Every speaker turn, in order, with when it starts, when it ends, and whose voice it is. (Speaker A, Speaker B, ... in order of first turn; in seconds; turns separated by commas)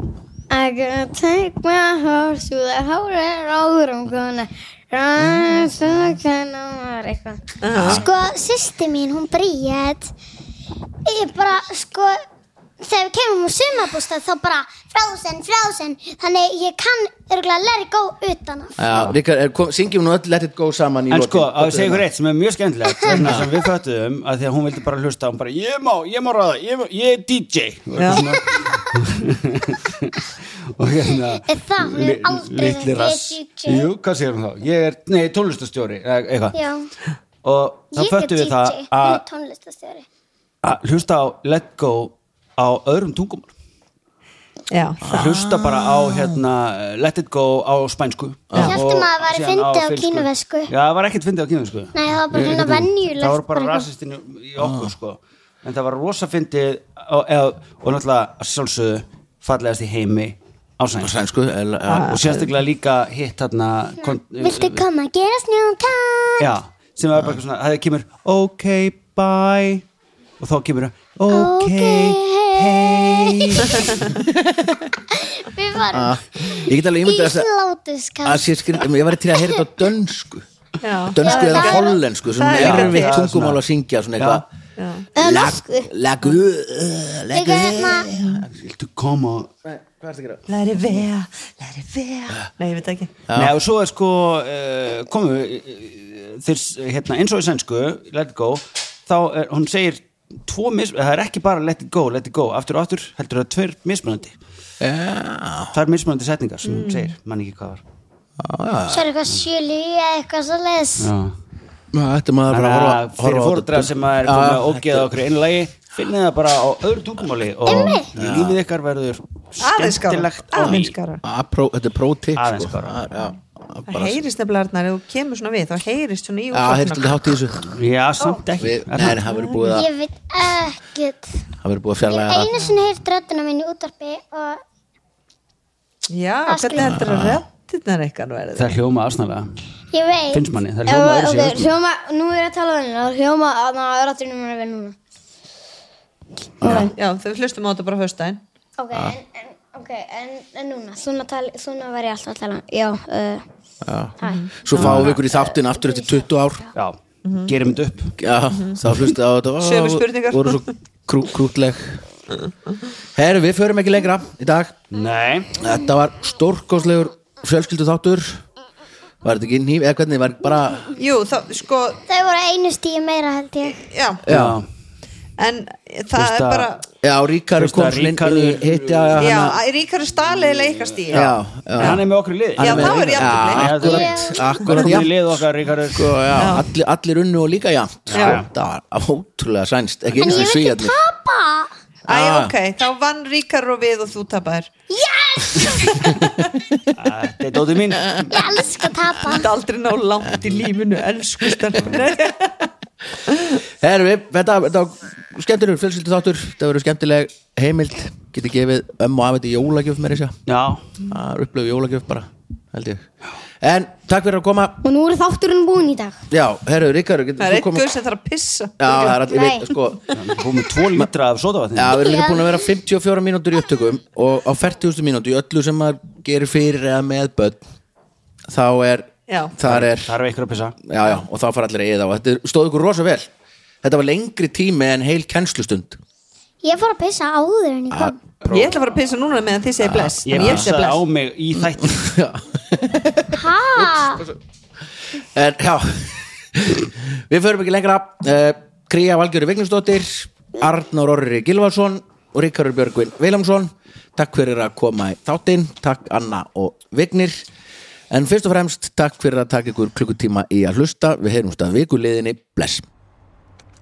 Speaker A: 0.5-7.4, Speaker B: 7.6-8.0, Speaker C: 7.7-8.0, Speaker D: 7.9-10.1, Speaker D: 11.0-12.2, Speaker D: 12.8-18.8, Speaker C: 18.8-22.0, Speaker E: 21.1-36.6, Speaker C: 23.2-23.5, Speaker B: 27.9-28.2, Speaker D: 31.4-33.9, Speaker D: 36.5-36.9, Speaker E: 37.4-39.2, Speaker D: 37.9-40.0, Speaker E: 40.6-43.5, Speaker B: 44.7-45.3, Speaker C: 45.0-46.4, Speaker E: 45.0-61.2, Speaker C: 48.5-48.8, Speaker D: 48.6-50.7, Speaker D: 51.9-53.9, Speaker C: 54.6-54.9, Speaker C: 61.0-62.5, Speaker B: 61.9-62.3, Speaker E: 62.1-64.8, Speaker D: 64.4-66.5, Speaker E: 66.4-69.8, Speaker E: 70.4-74.2, Speaker D: 71.3-74.0, Speaker B: 73.7-74.0, Speaker C: 74.3-74.9, Speaker D: 75.1-79.6, Speaker C: 75.9-77.5, Speaker C: 78.2-80.5, Speaker B: 80.8-83.2, Speaker C: 81.0-84.5, Speaker D: 81.2-82.0, Speaker E: 82.5-83.6, Speaker E: 84.2-84.4, Speaker B: 84.8-85.1, Speaker A: 85.1-85.9, Speaker C: 85.1-88.5, Speaker D: 87.3-88.1, Speaker E: 88.5-89.5, Speaker C: 89.6-90.5, Speaker B: 90.5-93.1, Speaker C: 93.3-93.5, Speaker E: 93.3-104.4, Speaker C: 104.8-105.7, Speaker E: 105.7-107.8, Speaker B: 106.6-107.1, Speaker C: 108.4-109.1, Speaker D: 108.9-111.1, Speaker E: 111.0-111.3, Speaker C: 111.9-115.1, Speaker E: 112.5-120.9, Speaker D: 117.6-118.1, Speaker C: 118.1-118.6, Speaker B: 119.6-121.2, Speaker C: 120.6-124.2, Speaker E: 122.3-123.1, Speaker B: 123.9-127.3, Speaker C: 126.5-127.7, Speaker E: 127.7-129.2, Speaker C: 128.6-129.9, Speaker B: 129.3-129.8, Speaker D: 129.6-131.4, Speaker C: 131.6-132.5, Speaker D: 132.0-134.6, Speaker B: 136.1-138.7, Speaker D: 136.5-136.9, Speaker C: 136.7-137.4, Speaker E: 138.5-139.6, Speaker D: 139.9-140.4, Speaker E: 140.3-141.7, Speaker A: 140.8-145.0, Speaker C: 146.6-146.9, Speaker A: 146.6-146.9, Speaker B: 146.6-148.4, Speaker A: 148.8-153.4, Speaker C: 153.8-156.7, Speaker A: 154.2-156.1, Speaker B: 154.2-155.1, Speaker E: 154.8-155.1, Speaker E: 156.7-158.2, Speaker B: 157.2-157.5, Speaker C: 158.2-162.0, Speaker B: 158.5-158.8, Speaker B: 159.6-160.6, Speaker C: 163.1-164.8, Speaker E: 164.9-165.6, Speaker C: 165.6-168.4, Speaker C: 169.2-170.9, Speaker B: 171.0-172.0, Speaker D: 172.1-173.9, Speaker B: 173.8-174.2, Speaker C: 174.2-174.6, Speaker E: 174.3-174.7, Speaker B: 175.4-176.8, Speaker E: 176.1-176.7, Speaker C: 177.0-179.6, Speaker E: 177.6-179.3, Speaker B: 179.2-181.3, Speaker E: 180.5-186.2, Speaker C: 181.1-182.0, Speaker C: 182.6-185.2, Speaker B: 182.6-183.8, Speaker D: 183.8-184.6, Speaker C: 185.9-191.0, Speaker B: 186.3-186.7, Speaker E: 188.1-188.5, Speaker B: 188.1-188.4, Speaker D: 190.2-191.7, Speaker C: 192.1-192.5, Speaker B: 192.1-194.7, Speaker D: 194.9-196.1, Speaker E: 196.9-198.3, Speaker D: 198.3-199.5, Speaker B: 199.3-202.7, Speaker C: 203.6-210.4, Speaker E: 210.5-210.8, Speaker C: 211.1-213.1, Speaker C: 213.6-214.8, Speaker A: 214.8-216.2, Speaker C: 216.3-217.9, Speaker B: 217.4-219.3, Speaker C: 218.8-220.2, Speaker A: 219.3-219.7, Speaker E: 220.1-222.0, Speaker C: 221.7-227.6, Speaker D: 221.9-222.6, Speaker C: 228.5-230.1, Speaker B: 229.3-229.5, Speaker E: 229.6-230.8, Speaker C: 230.8-233.3, Speaker C: 233.8-236.0, Speaker D: 236.6-238.2, Speaker C: 237.9-238.8, Speaker B: 238.5-241.0, Speaker C: 239.8-240.7, Speaker E: 240.2-242.1, Speaker C: 241.5-244.4, Speaker D: 243.3-244.2, Speaker C: 245.1-257.4, Speaker C: 258.1-262.8